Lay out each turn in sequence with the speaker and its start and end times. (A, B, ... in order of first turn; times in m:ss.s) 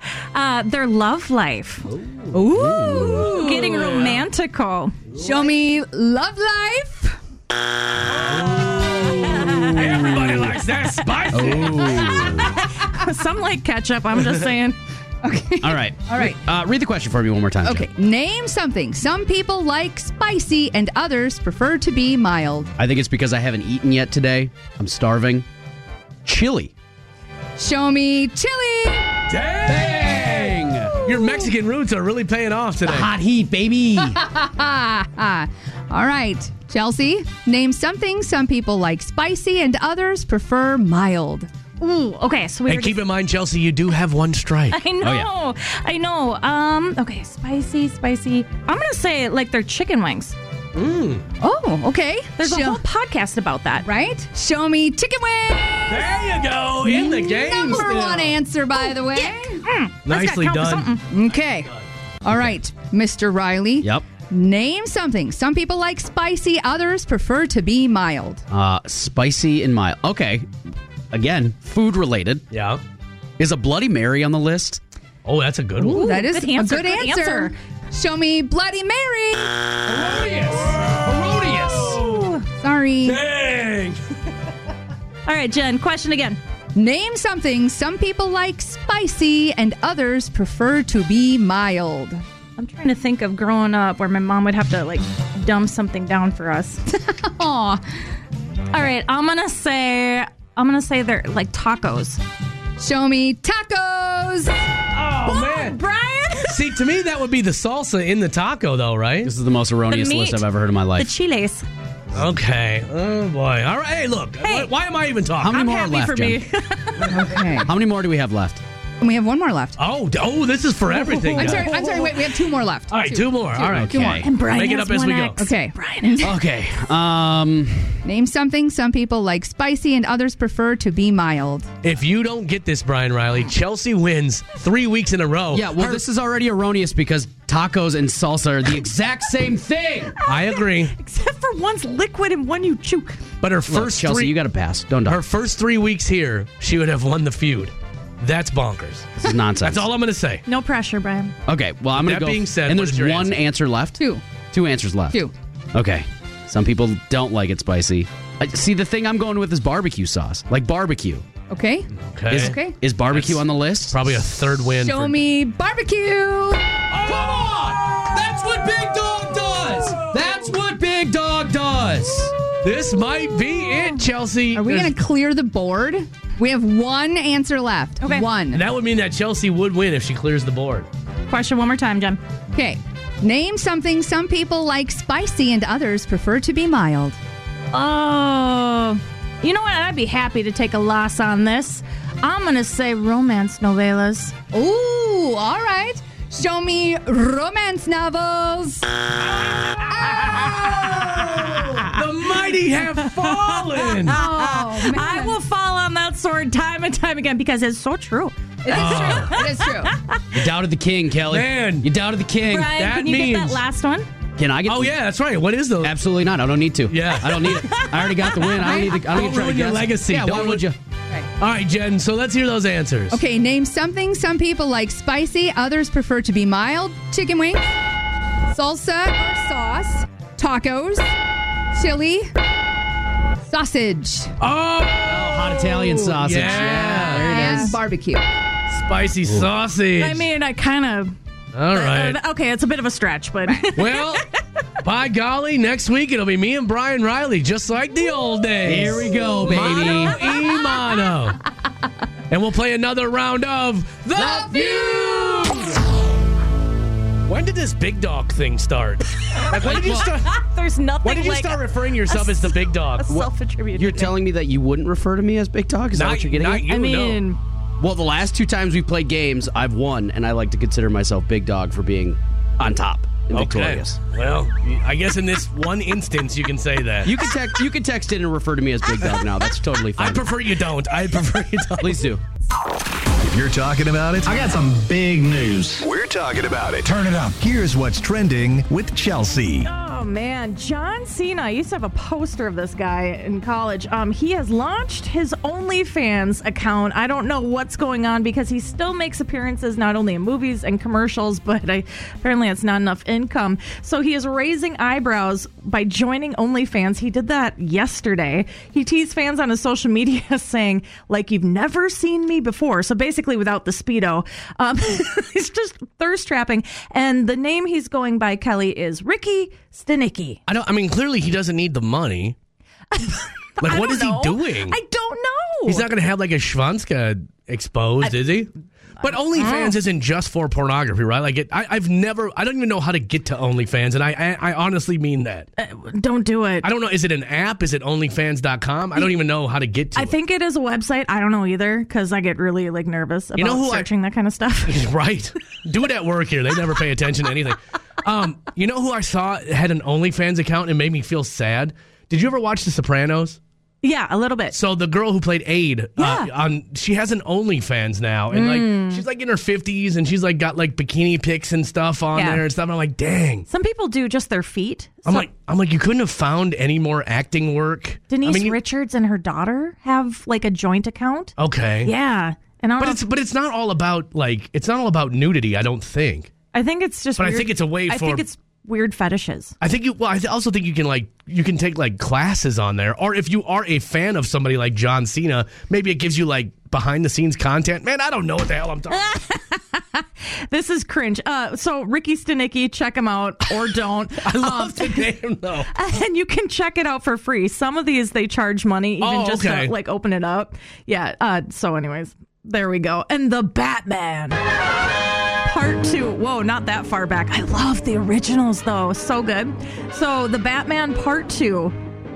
0:00.3-0:01.9 A
0:02.3-0:03.8 B
0:02.5-0:03.3 C
0:02.8-0:05.0 A
0:03.6-0:04.2 D
0:05.1-0:07.1 B
0:08.1-0:12.3 D
0:09.7-0:10.1 C
0:11.3-0:12.6 C
0:12.1-0:14.8 A
0:15.2-0:16.4 B
0:15.6-0:17.9 C
0:17.6-0:22.7 B
0:22.8-0:25.4 C
0:26.2-0:26.7 C
0:27.6-0:29.1 B
0:29.3-0:33.1 D
0:29.6-0:31.0 C
0:31.1-0:31.5 B
0:32.8-0:34.2 C
0:34.0-0:41.5 B
0:41.8-0:43.0 A
0:42.7-0:44.8 D
0:44.7-0:50.4 A
0:45.0-0:45.3 C
0:50.7-0:51.2 D
0:51.4-0:52.8 B
0:52.4-0:53.9 A
0:53.8-0:56.1 B
0:55.9-0:58.4 D
0:56.8-0:59.6 B
0:58.8-1:01.0 A
1:00.0-1:00.9 D
1:01.1-1:01.7 B
1:02.2-1:08.4 B
1:08.5-1:10.5 C
1:11.1-1:12.4 C
1:12.5-1:12.8 D
1:13.4-1:14.8 C
1:15.2-1:16.1 D
1:15.8-1:19.6 B
1:15.9-1:17.5 A
1:19.9-1:22.3 D
1:20.9-1:22.0 C
1:22.5-1:23.2 B
1:23.0-1:24.0 D
1:25.2-1:26.4 A
1:26.8-1:32.2 B
1:32.6-1:36.8 A
1:36.9-1:37.8 B
1:38.7-1:42.2 A
1:42.8-1:44.5 B
1:44.9-1:45.8 D
1:45.2-1:46.7 A
1:46.5-1:49.3 D
1:49.2-1:51.1 C
1:49.9-1:50.4 A
1:51.0-1:51.6 A
1:52.1-1:55.5 D
1:54.4-1:54.7 A
1:55.4-1:56.4 C
1:55.5-1:57.1 A
1:57.1-1:57.7 B
1:57.6-1:58.6 C
1:59.0-1:59.8 B
1:59.8-2:01.7 D
2:00.9-2:02.2 A
2:01.4-2:04.2 B
2:02.9-2:05.4 D
2:03.7-2:04.3 C
2:04.1-2:06.3 A
2:05.4-2:06.3 B
2:06.2-2:08.0 C
2:08.0-2:11.7 B
2:11.8-2:16.0 D
2:15.5-2:20.2 C
2:20.2-2:23.2 A
2:20.2-2:20.9 D
2:23.4-2:24.4 D
2:23.7-2:25.2 C
2:25.0-2:30.4 D
2:29.2-2:29.9 C
2:30.4-2:31.3 A
2:31.5-2:41.2 C
2:32.0-2:33.4 D
2:34.0-2:34.2 B
2:41.5-2:42.8 B
2:42.0-2:42.6 D
2:42.3-2:44.0 C
2:43.1-2:45.2 D
2:44.8-2:46.6 B
2:46.9-2:52.3 C
2:52.6-2:54.9 D
2:54.5-2:58.6 B
2:58.0-2:58.3 A
2:58.5-3:00.9 D
3:01.3-3:02.2 A
3:02.5-3:07.2 B
3:07.7-3:14.3 A
3:14.5-3:18.9 B
3:19.9-3:21.1 B
3:20.0-3:24.2 D
3:23.2-3:30.2 A
3:24.0-3:25.4 B
3:28.6-3:29.9 B
3:28.7-3:29.4 D
3:30.3-3:32.8 C
3:31.3-3:31.9 D
3:32.5-3:34.1 A
3:32.7-3:33.6 D
3:34.4-3:35.0 C
3:34.7-3:36.0 D
3:35.8-3:40.8 C
3:36.9-3:37.6 D
3:37.4-3:38.9 A
3:39.0-3:40.7 D
3:41.4-3:43.2 D
3:43.1-3:47.7 B
3:48.5-3:51.1 B
3:51.7-3:52.3 B
3:53.4-3:54.3 B
3:54.4-3:57.3 D
3:55.0-3:57.5 C
3:56.7-3:58.2 B
3:56.8-3:57.7 A
3:58.7-4:00.2 D
4:00.0-4:01.1 A
4:01.5-4:02.2 D
4:01.7-4:04.3 A
4:03.7-4:04.2 D
4:04.8-4:11.4 D
4:08.6-4:10.2 C
4:09.2-4:11.2 A
4:12.3-4:15.8 D
4:17.2-4:20.4 D
4:19.3-4:24.1 A
4:19.6-4:20.0 C
4:21.0-4:23.2 D
4:23.7-4:26.7 C
4:25.9-4:27.2 D
4:26.7-4:27.4 A
4:27.8-4:34.0 C
4:33.3-4:37.1 D
4:37.0-4:40.3 C
4:40.0-4:42.1 D
4:41.8-4:42.2 C
4:43.2-4:44.4 E
4:44.2-4:45.8 F
4:45.8-4:49.7 E
4:46.8-4:47.4 F
4:49.6-5:20.4 A
5:20.5-5:22.4 D
5:22.9-5:25.9 A
5:23.6-5:24.8 D
5:25.6-5:28.5 D
5:29.0-5:35.5 D
5:29.0-5:29.8 A
5:35.6-5:36.6 A
5:36.6-5:40.2 D
5:40.0-5:44.8 A
5:43.4-5:43.9 D
5:44.6-5:53.4 D
5:53.8-5:54.6 A
5:54.5-6:03.4 D
5:56.0-5:56.3 A
5:58.3-5:59.0 A
6:02.1-6:02.4 A
6:03.5-6:05.3 A
6:05.0-6:08.6 D
6:08.1-6:13.0 A
6:11.4-6:11.9 D
6:12.8-6:16.3 D
6:16.5-6:19.5 A
6:17.2-6:18.2 D
6:19.6-6:29.1 D
6:28.9-6:35.1 A
6:34.2-6:35.7 D
6:35.7-6:44.4 A
6:39.0-6:39.7 D
6:45.4-6:51.7 A